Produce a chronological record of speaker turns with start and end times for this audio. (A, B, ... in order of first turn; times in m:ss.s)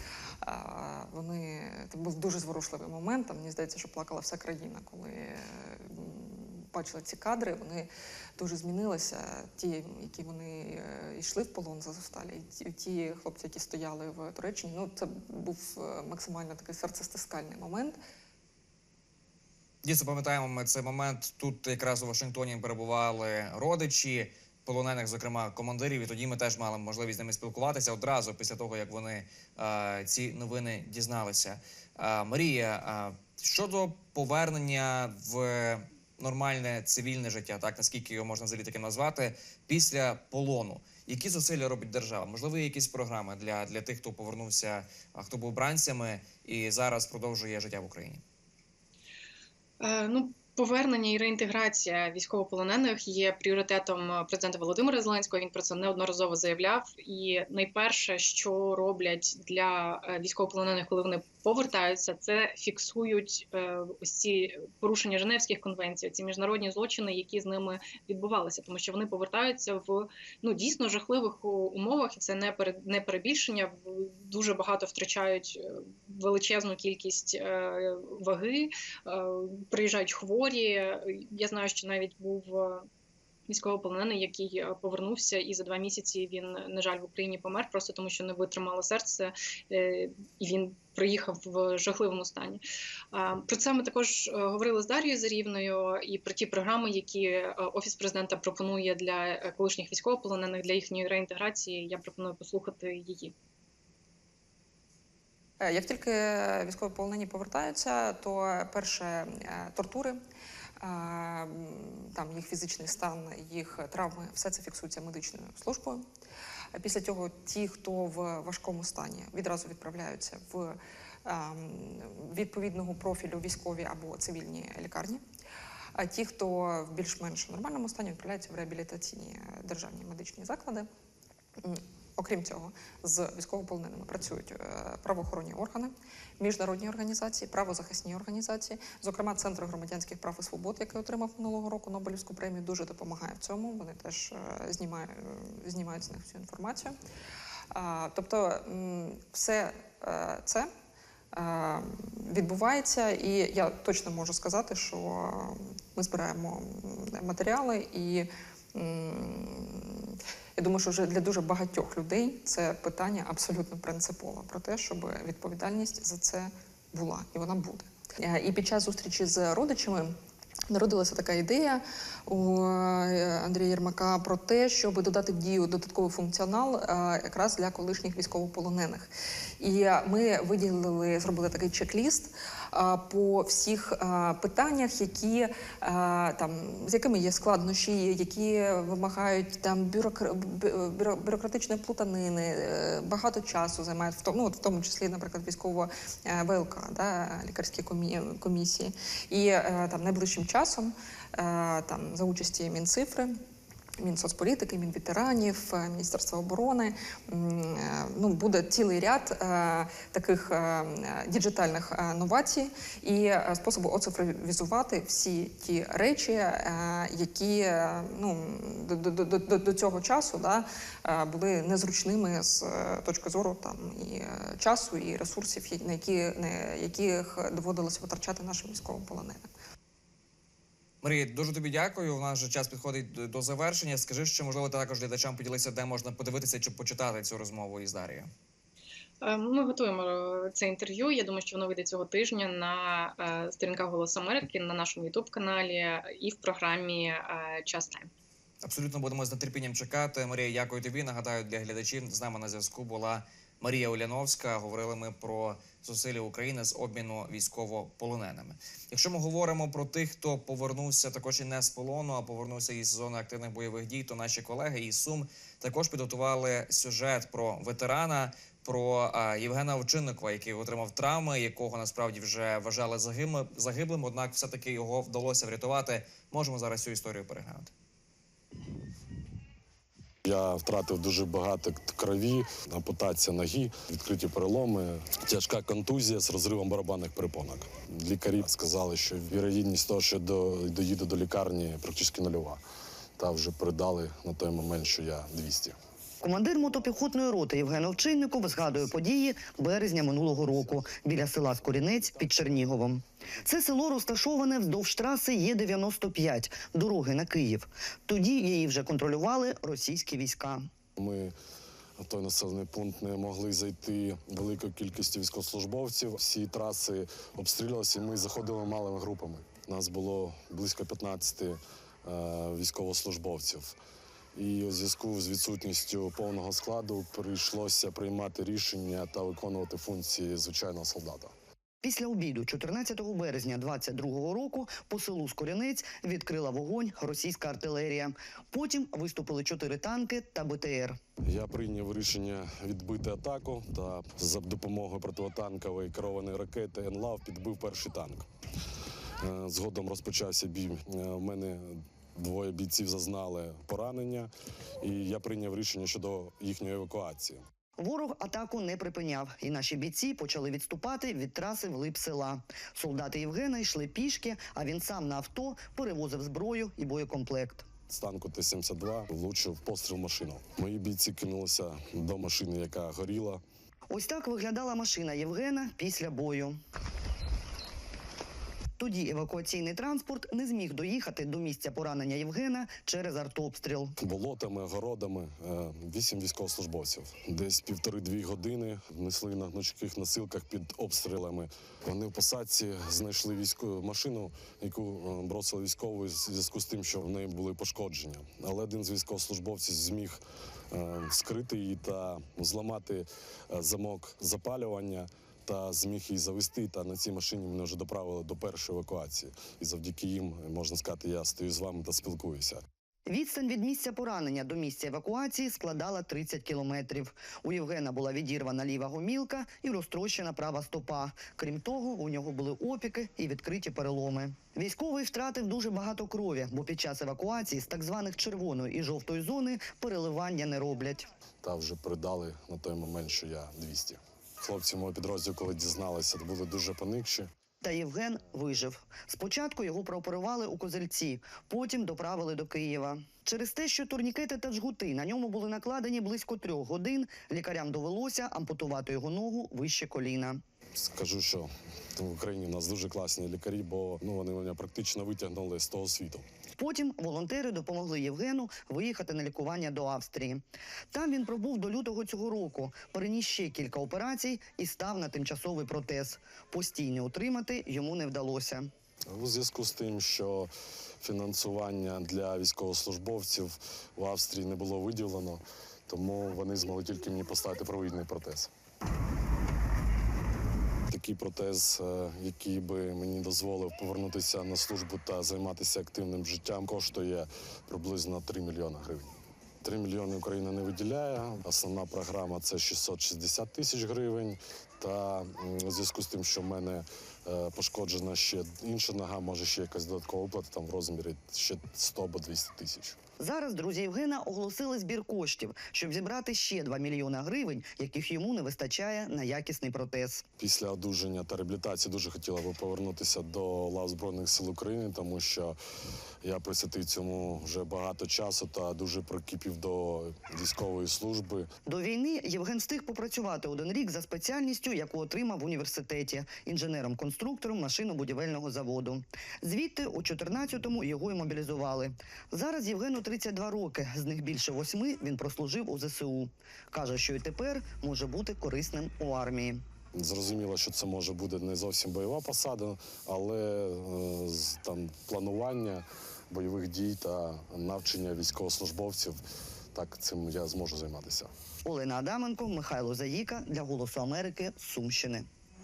0:00.4-0:18.0 A
0:19.8-0:48.2 B
0:49.8-1:22.9 C
1:23.5-1:43.3 C
1:45.6-1:50.2 A
1:50.8-1:56.0 A
1:56.7-2:05.2 A
2:06.0-2:10.9 A
2:11.6-2:27.0 A
2:27.7-2:30.7 A
2:31.3-2:50.2 A
2:50.7-3:23.4 A
3:24.0-3:49.5 A
3:51.0-3:58.3 B
3:59.2-4:08.1 C
4:08.6-4:37.7 B
4:40.2-4:52.6 D
4:53.2-4:55.8 D
4:56.2-5:10.7 E
5:11.0-5:11.4 D
5:12.0-5:23.7 D
5:24.4-5:31.3 D
5:31.8-5:41.0 E
5:41.2-5:48.3 D
5:49.2-5:57.4 D
5:57.8-6:07.7 E
6:07.9-6:13.4 D
6:13.9-6:16.6 E
6:18.8-6:24.0 E
6:24.0-6:40.2 D
6:40.7-6:52.6 D
6:53.1-7:11.1 E
7:11.4-7:17.3 D
7:17.6-7:30.4 E
7:30.8-7:36.3 D
7:36.6-7:48.7 E
7:49.1-7:50.5 D
7:51.0-7:58.5 D
8:00.9-8:23.0 D
8:23.2-8:30.2 E
8:30.4-8:35.6 D
8:36.2-8:41.5 D
8:41.7-8:59.6 E
9:00.0-9:09.2 D
9:09.7-9:11.3 D
9:11.6-9:15.3 E